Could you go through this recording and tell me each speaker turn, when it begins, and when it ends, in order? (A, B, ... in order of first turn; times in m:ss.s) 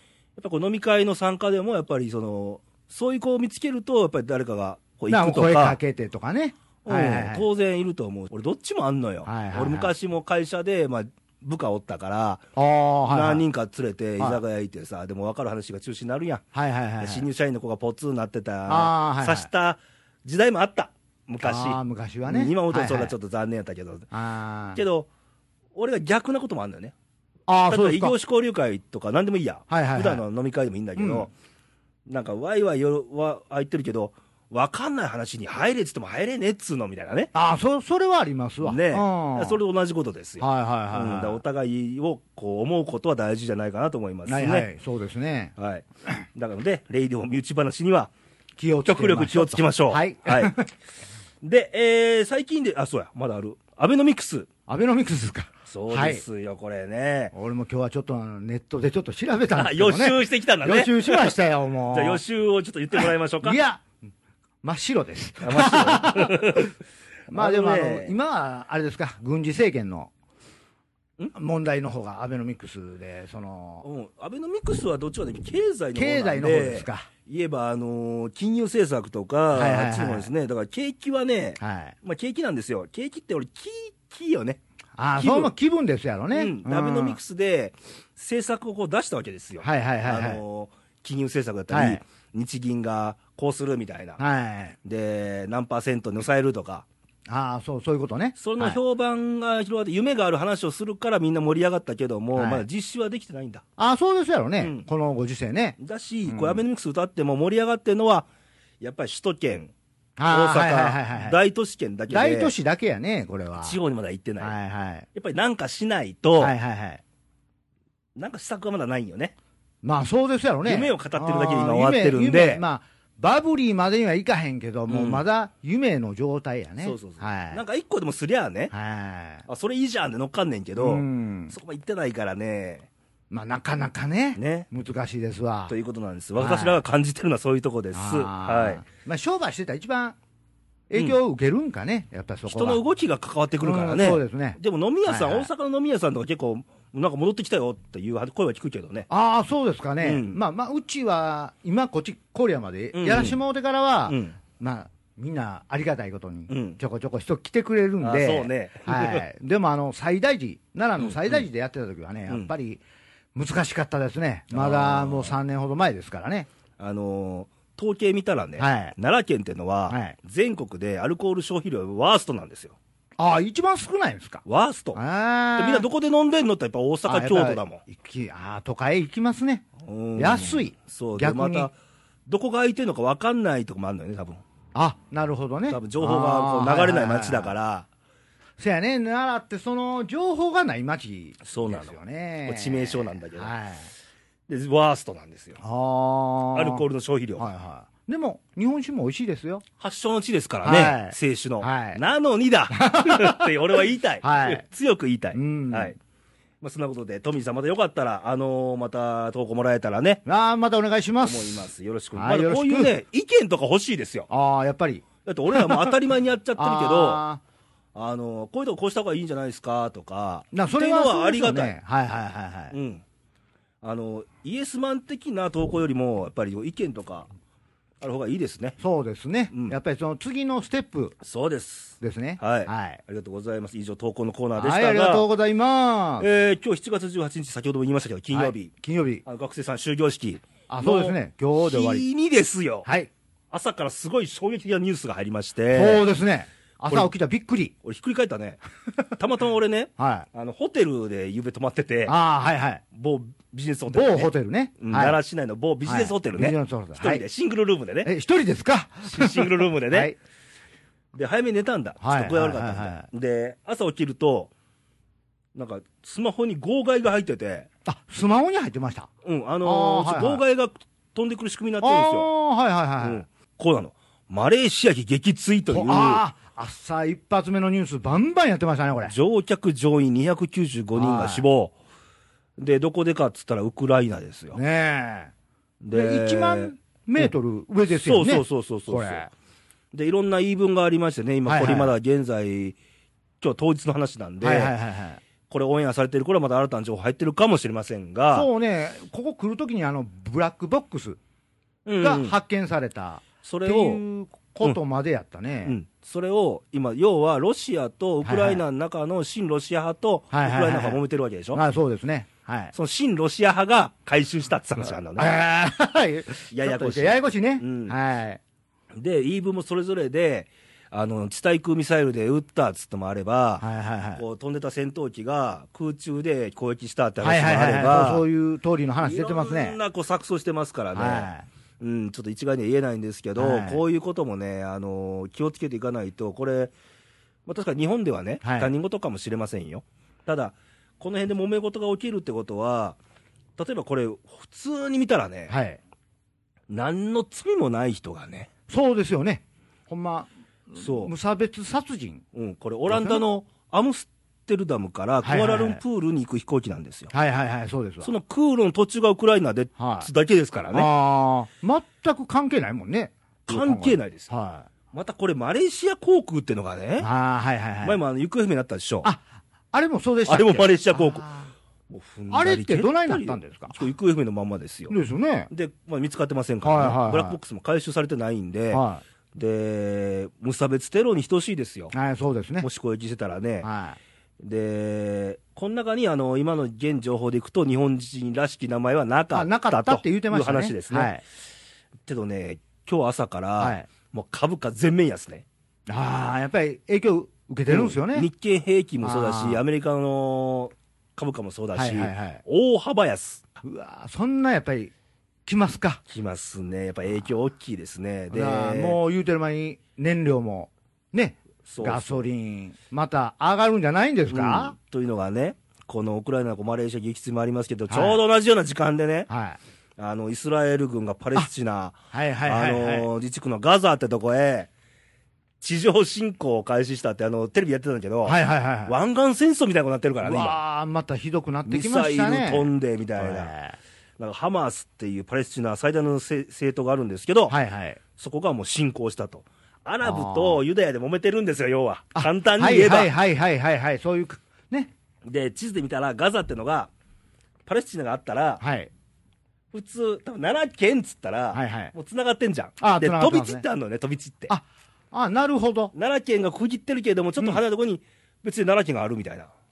0:00.4-0:05.8 A
0:05.1-0:07.4 B
0:06.8-0:12.4 A
0:09.3-0:09.9 B
0:12.6-0:13.4 B
0:13.1-0:16.4 A
0:16.5-0:17.3 B
0:17.0-0:24.1 A
0:18.7-0:19.5 B
0:21.4-0:23.1 B
0:24.1-0:24.8 B
0:24.8-0:25.1 A
0:25.8-0:26.9 A
0:27.5-0:28.2 B
0:27.7-0:31.3 A
0:29.7-0:30.2 B
0:31.0-0:31.3 B
0:32.1-0:37.3 A
0:37.3-0:39.6 B
0:38.6-0:44.7 A
0:40.4-0:41.4 B
0:44.3-0:45.6 B
0:45.6-0:48.1 A
0:48.6-0:50.7 B
0:48.9-0:50.6 A
0:51.4-0:54.5 A
0:54.7-0:56.2 B
0:55.7-0:57.3 A
0:57.3-1:02.2 B
0:59.5-1:01.4 A
1:01.9-1:03.6 A
1:03.0-1:03.9 B
1:04.6-1:06.7 B
1:05.4-1:06.7 A
1:07.3-1:08.1 A
1:07.3-1:10.1 B
1:11.3-1:13.8 B
1:13.8-1:24.6 A
1:15.9-1:17.1 B
1:19.5-1:20.3 B
1:21.6-1:22.0 B
1:25.0-1:27.2 B
1:25.2-1:25.5 A
1:26.3-1:34.2 A
1:29.6-1:30.4 B
1:31.7-1:32.0 B
1:34.2-1:34.8 B
1:34.8-1:36.9 A
1:37.3-1:38.8 B
1:38.4-1:43.6 A
1:42.4-1:42.7 B
1:43.8-1:46.6 B
1:44.6-1:44.9 A
1:45.8-1:48.3 A
1:48.8-1:49.7 A
1:50.2-1:51.4 B
1:50.3-1:52.5 A
1:52.1-1:53.8 B
1:53.6-1:54.5 A
1:54.4-1:55.1 B
1:55.1-1:56.6 A
1:56.4-1:57.0 B
1:58.2-1:59.4 A
1:59.8-2:07.6 B
2:00.6-2:02.6 A
2:04.9-2:05.2 A
2:06.8-2:08.7 A
2:08.7-2:09.5 B
2:09.5-2:12.9 A
2:10.8-2:11.6 B
2:13.3-2:15.8 B
2:14.4-2:14.7 A
2:15.7-2:18.8 A
2:16.4-2:16.8 B
2:17.9-2:20.2 B
2:20.9-2:22.8 B
2:22.5-2:29.1 A
2:23.6-2:25.5 B
2:29.1-2:42.8 B
2:30.0-2:30.4 A
2:32.9-2:33.4 A
2:34.1-2:34.4 A
2:36.5-2:36.8 A
2:38.0-2:39.2 A
2:41.0-2:41.4 A
2:43.4-2:46.5 B
2:44.5-2:45.3 A
2:46.8-2:52.8 A
2:48.6-2:49.0 B
2:49.9-2:50.2 B
2:53.2-2:54.4 B
2:54.4-2:55.0 A
2:55.0-2:55.9 B
2:55.6-2:57.8 A
2:57.1-3:01.7 B
2:59.8-3:01.7 A
3:02.3-3:04.4 A
3:04.7-3:07.5 B
3:05.7-3:07.9 A
3:08.6-3:13.9 B
3:11.4-3:11.9 A
3:12.5-3:13.5 A
3:14.5-3:15.6 A
3:15.6-3:16.8 B
3:16.5-3:17.5 A
3:17.4-3:19.6 B
3:19.8-3:26.0 A
3:20.6-3:22.0 B
3:22.7-3:23.5 B
3:24.2-3:24.6 B
3:25.3-3:25.9 B
3:26.6-3:30.2 A
3:30.3-3:32.9 B
3:31.2-3:34.3 A
3:34.3-3:36.0 B
3:35.2-3:37.2 A
3:36.6-3:37.4 B
3:38.0-3:41.7 A
3:40.5-3:42.7 B
3:42.7-3:43.0 A
3:43.8-3:47.3 A
3:48.0-3:48.8 A
3:48.8-3:51.2 B
3:51.2-3:55.3 A
3:52.0-3:53.0 B
3:54.6-3:56.3 B
3:56.2-3:58.7 A
3:58.3-3:59.2 B
3:59.2-4:02.9 A
4:00.7-4:02.0 B
4:02.8-4:03.1 B
4:03.5-4:06.0 A
4:05.7-4:07.7 B
4:07.8-4:08.6 A
4:09.2-4:12.2 A
4:10.0-4:10.3 B
4:12.1-4:12.8 B
4:12.9-4:18.1 A
4:13.9-4:15.2 B
4:15.8-4:17.2 B
4:18.0-4:20.2 B
4:19.0-4:20.1 A
4:21.1-4:24.5 A
4:22.0-4:23.1 B
4:25.6-4:27.7 A
4:27.8-4:29.1 B
4:29.2-4:32.3 A
4:29.6-4:30.4 B
4:31.8-4:33.2 B
4:33.0-4:36.2 A
4:35.7-4:39.2 B
4:39.1-4:41.7 A
4:41.0-4:41.4 B
4:42.6-4:44.6 A
4:44.5-4:45.3 B
4:45.8-4:47.3 A
4:45.9-4:49.3 B
4:48.0-4:49.3 A
4:49.9-4:52.8 A
4:51.5-4:51.9 B
4:53.4-4:54.7 A
4:54.4-4:55.2 B
4:55.5-4:58.5 A
4:58.3-5:01.2 B
5:01.9-5:02.3 A
5:02.0-5:05.8 B
5:03.4-5:04.0 A
5:05.7-5:11.6 A
5:08.2-5:08.6 B
5:10.3-5:11.0 B
5:11.5-5:12.7 B
5:12.7-5:15.3 A
5:15.2-5:18.4 B
5:16.5-5:18.0 A
5:19.0-5:28.2 A
5:23.6-5:24.2 B
5:27.2-5:29.8 B
5:29.0-5:36.7 A
5:31.0-5:31.5 B
5:33.4-5:33.8 B
5:37.5-5:43.0 A
5:38.4-5:38.7 B
5:43.6-5:45.6 A
5:45.5-5:45.8 B
5:46.7-5:48.5 A
5:48.7-5:52.2 B
5:50.8-5:51.1 A
5:52.3-5:57.1 A
5:52.9-5:53.2 B
5:55.2-5:55.8 B
5:57.1-5:58.1 B
5:58.0-6:00.9 A
5:59.8-6:00.1 B
6:00.7-6:04.7 B
6:03.5-6:04.3 A
6:04.9-6:07.1 A
6:07.0-6:08.0 B
6:07.8-6:09.1 A
6:09.0-6:11.5 B
6:10.3-6:11.3 A
6:11.9-6:14.9 A
6:12.3-6:13.8 B
6:14.9-6:15.5 B
6:15.5-6:21.9 A
6:16.6-6:17.4 B
6:18.7-6:19.0 B
6:21.9-6:22.7 B
6:22.6-6:23.7 A
6:23.6-6:24.0 B
6:24.4-6:31.1 A
6:29.3-6:31.2 B
6:32.1-6:35.4 A
6:33.6-6:33.9 B
6:35.9-6:38.3 B
6:37.7-6:43.4 A
6:39.0-6:39.6 B
6:41.8-6:42.4 B
6:43.6-6:44.9 B
6:45.5-6:46.0 B
6:46.1-6:49.0 A
6:48.3-6:54.8 B
6:51.7-6:52.2 A
6:54.3-6:59.3 A
6:57.9-6:58.2 B
6:59.3-6:59.6 B
7:00.0-7:04.7 A
7:02.1-7:03.1 B
7:05.6-7:10.6 A
7:08.2-7:09.0 B
7:10.2-7:13.8 B
7:11.7-7:13.5 A
7:14.2-7:17.6 A
7:17.5-7:18.0 B
7:18.2-7:23.1 A
7:20.0-7:20.6 B
7:22.2-7:24.9 B
7:25.2-7:26.9 A
7:27.7-7:28.6 A
7:28.6-7:28.9 B
7:29.7-7:34.5 A
7:31.5-7:31.9 B
7:32.8-7:33.6 B
7:34.5-7:35.9 B
7:35.9-7:39.5 A